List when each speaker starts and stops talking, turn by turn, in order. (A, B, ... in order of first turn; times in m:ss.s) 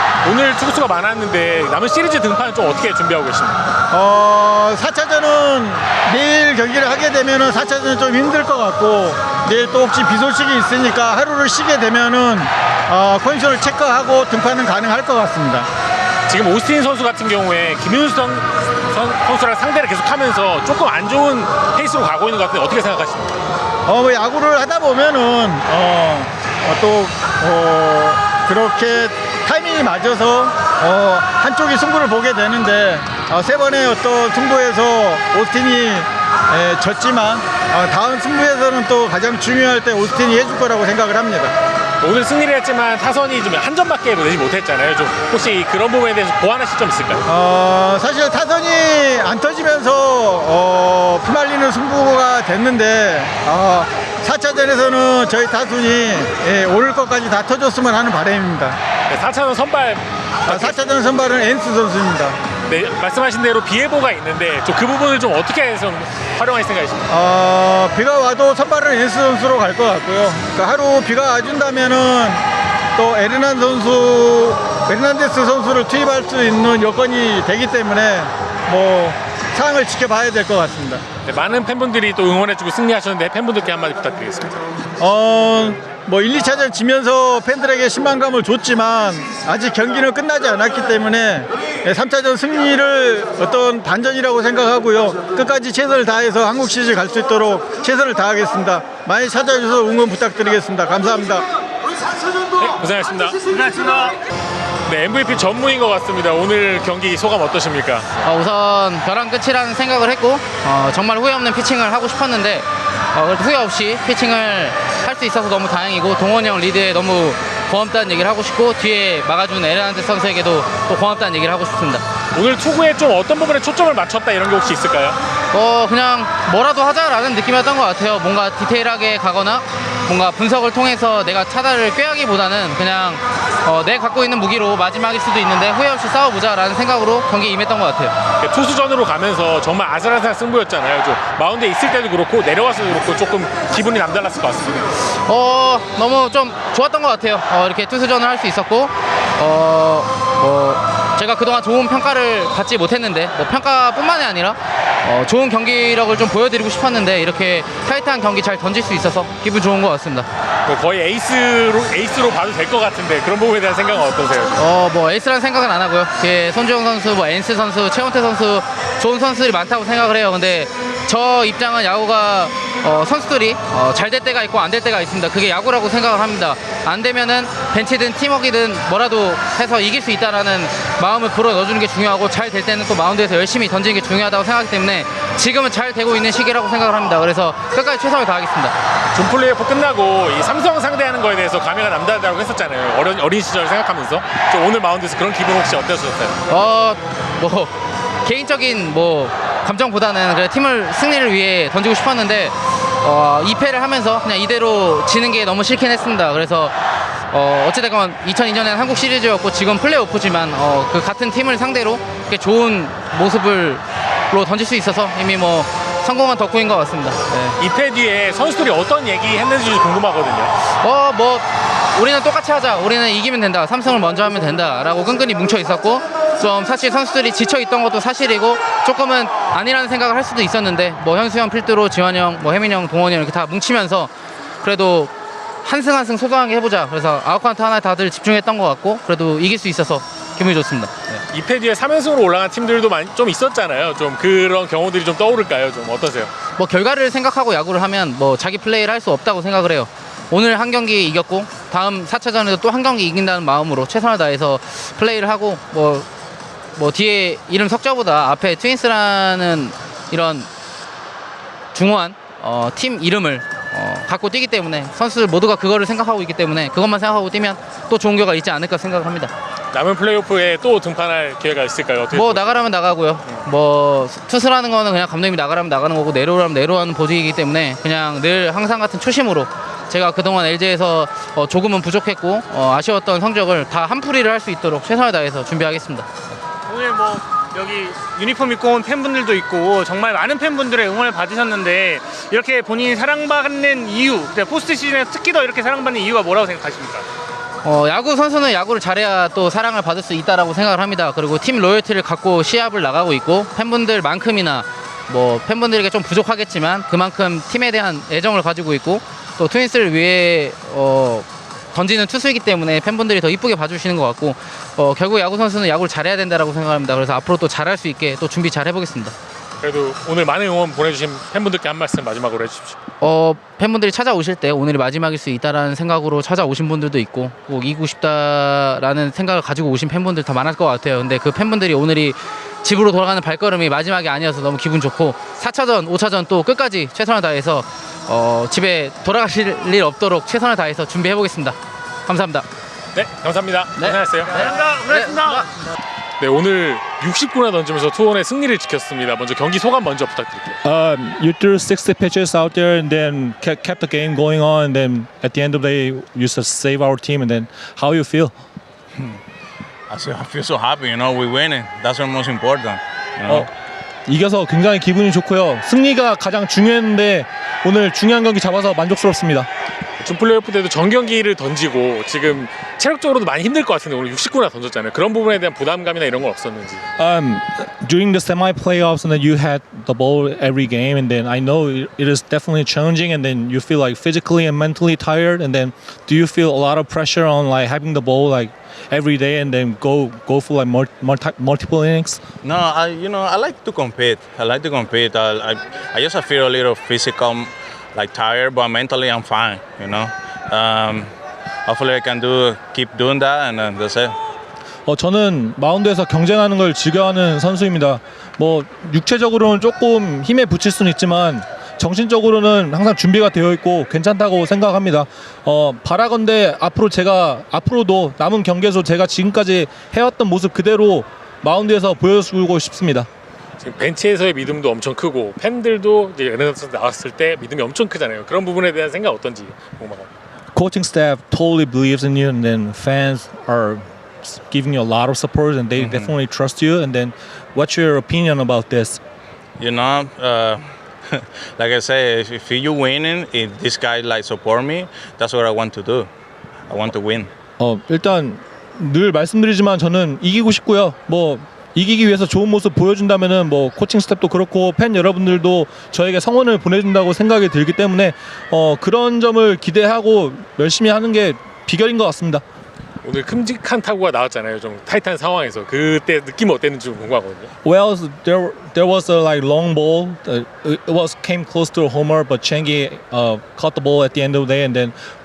0:00.2-0:03.6 A
0:03.9-0:15.7 B
0:16.3-0:23.4 A
0:23.8-0:41.5 B
0:42.0-0:47.3 A
0:47.3-0:58.8 B
0:59.1-1:00.8 A
1:00.5-1:02.4 B
1:02.7-1:07.0 A
1:07.1-1:12.4 B
1:13.0-1:21.0 B
1:21.2-1:24.6 A
1:25.0-1:41.4 B
1:42.6-1:43.4 A
1:44.8-1:48.1 A
1:48.2-2:02.0 C
2:02.3-2:05.2 A
2:05.5-2:18.1 C
2:18.4-2:24.8 A
2:25.2-2:40.3 C
2:40.6-2:44.6 A
2:44.6-3:08.7 C
3:09.1-3:16.4 A
3:16.5-3:17.7 C
3:18.2-3:26.8 C
3:27.3-3:37.6 C
3:37.6-3:40.5 A
3:40.8-3:54.1 C
3:54.6-3:55.1 C
3:55.6-4:00.9 C
4:01.3-4:06.3 A
4:06.6-4:16.0 C
4:16.8-4:20.5 C
4:21.7-4:29.3 C
4:29.7-4:32.6 A
4:32.1-4:46.0 C
4:46.7-4:57.1 D
4:57.6-5:19.1 C
5:19.6-5:22.8 A
5:23.0-5:42.4 C
5:42.9-5:44.6 A
5:43.8-5:45.5 C
5:44.8-5:45.4 D
5:46.2-5:50.6 A
5:50.6-5:58.3 E
5:59.9-6:03.5 F
6:04.0-6:09.5 E
6:10.0-6:16.8 A
6:17.0-6:32.2 E
6:32.4-6:41.1 F
6:41.6-6:44.2 F
6:44.9-7:03.1 E
7:03.6-7:10.1 A
7:10.5-7:19.0 E
7:15.8-7:16.1 F
7:19.6-7:26.1 F
7:26.7-7:27.3 F
7:27.6-7:42.4 E
7:43.0-7:47.5 A
7:47.6-7:54.9 E